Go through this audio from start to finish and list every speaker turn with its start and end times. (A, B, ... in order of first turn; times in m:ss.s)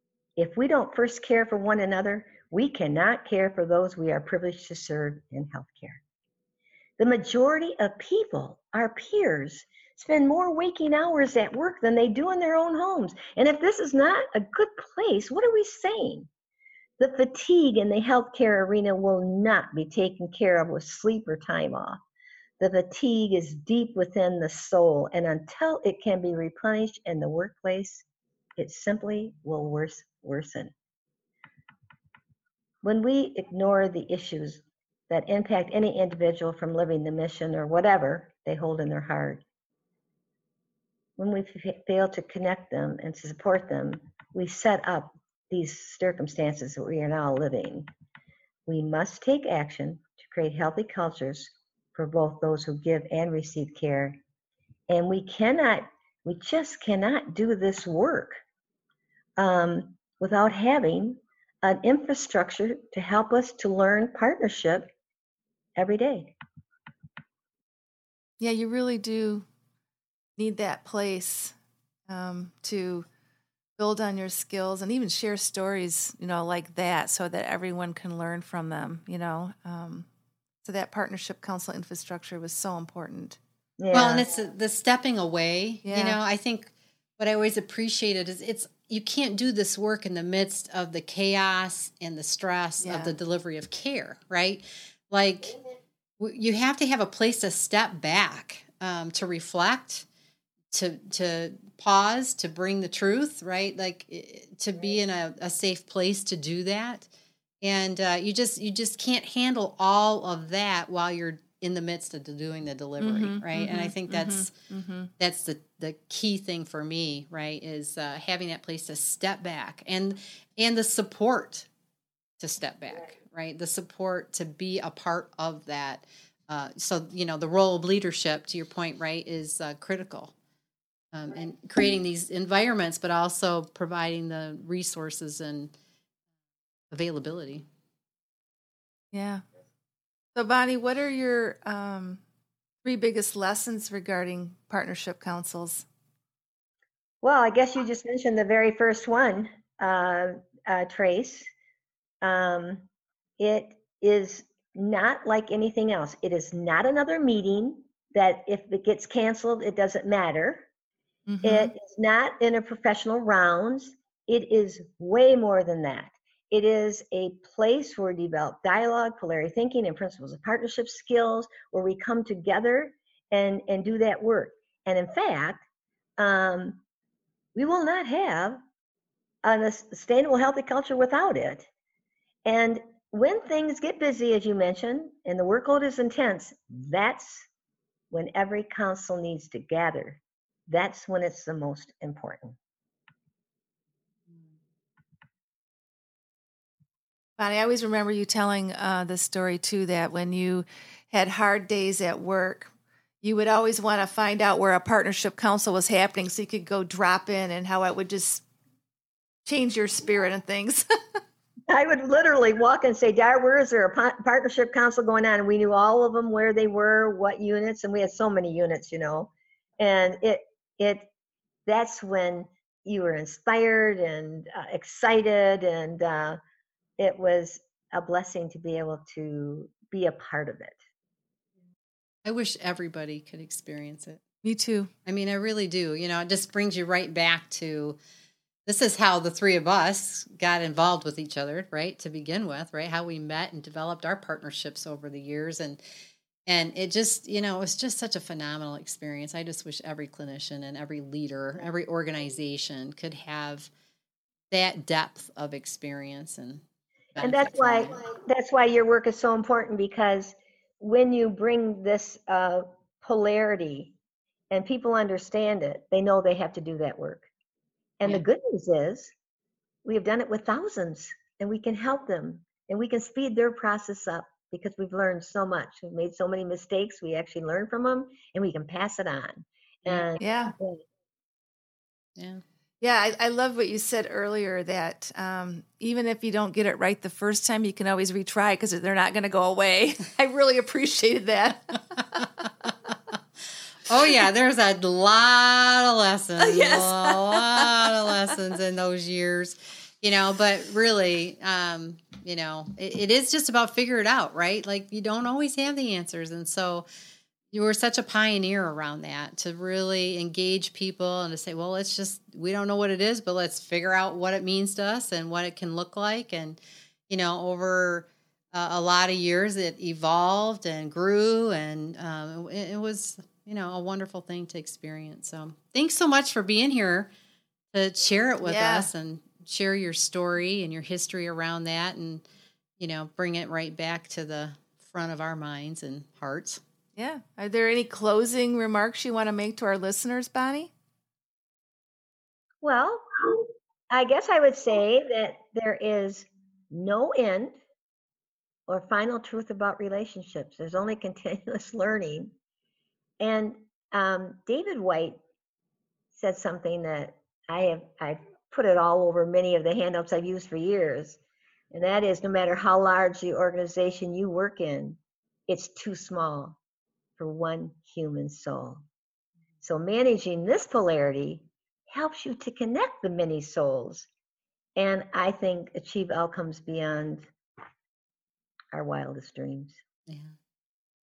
0:00.4-0:06.0 A
0:07.0-0:16.3 A
0:17.0-0:22.0 A
0:22.6-0:28.0 A
0:28.6-0:30.7 A
0:32.8-0:39.4 A
0:41.2-0:47.9 A
0:48.7-0:54.2 A
0:54.9-0:58.4 A
0:59.4-1:04.9 A
1:05.8-1:06.3 A
1:08.4-1:09.4 B
1:10.4-1:11.5 B
1:12.1-1:13.1 B
1:13.8-1:20.1 B
1:20.6-1:23.4 B
1:23.8-1:24.3 A
1:23.9-1:35.6 C
1:25.8-1:26.2 B
1:32.8-1:33.1 B
1:36.2-1:40.0 C
1:40.7-1:47.1 C
1:47.6-1:54.5 C
1:53.0-1:55.1 B
1:55.2-2:01.7 C
2:02.4-2:10.3 C
2:11.1-2:15.7 C
2:16.9-2:17.6 C
2:19.1-2:19.4 B
2:20.3-2:22.2 B
2:22.8-2:25.8 B
2:27.2-2:31.5 A
2:32.2-2:32.8 A
2:33.4-2:40.7 A
2:41.3-2:41.7 B
2:41.4-2:55.6 A
2:56.2-2:56.8 A
2:57.5-2:58.6 A
2:59.4-3:01.7 A
3:02.4-3:07.5 A
3:08.1-3:12.6 A
3:17.4-3:28.4 B
3:29.4-3:31.2 B
3:31.7-3:41.1 A
3:41.7-3:46.4 A
3:47.0-3:50.8 A
3:52.2-3:54.2 C
3:54.4-3:54.9 B
3:55.0-3:58.0 C
3:58.6-4:05.8 C
4:06.5-4:13.7 C
4:14.5-4:16.6 C
4:17.1-4:18.0 C
4:17.2-4:23.9 A
4:24.5-4:27.3 A
4:28.0-4:29.1 A
4:29.8-4:40.8 A
4:40.2-4:40.5 B
4:42.2-4:42.4 C
4:42.8-4:52.2 B
4:53.9-5:06.8 C
4:56.4-4:58.1 B
5:07.5-5:27.1 C
5:27.7-5:32.2 C
5:28.4-5:28.9 B
5:32.8-5:36.6 C
5:37.0-5:40.7 B
5:42.6-5:47.6 A
5:48.7-5:52.3 A
5:53.2-5:55.2 A
5:56.1-6:01.2 A
6:01.7-6:06.6 A
6:07.2-6:08.8 A
6:09.6-6:14.1 A
6:14.8-6:17.3 A
6:18.7-6:19.8 A
6:20.1-6:20.3 C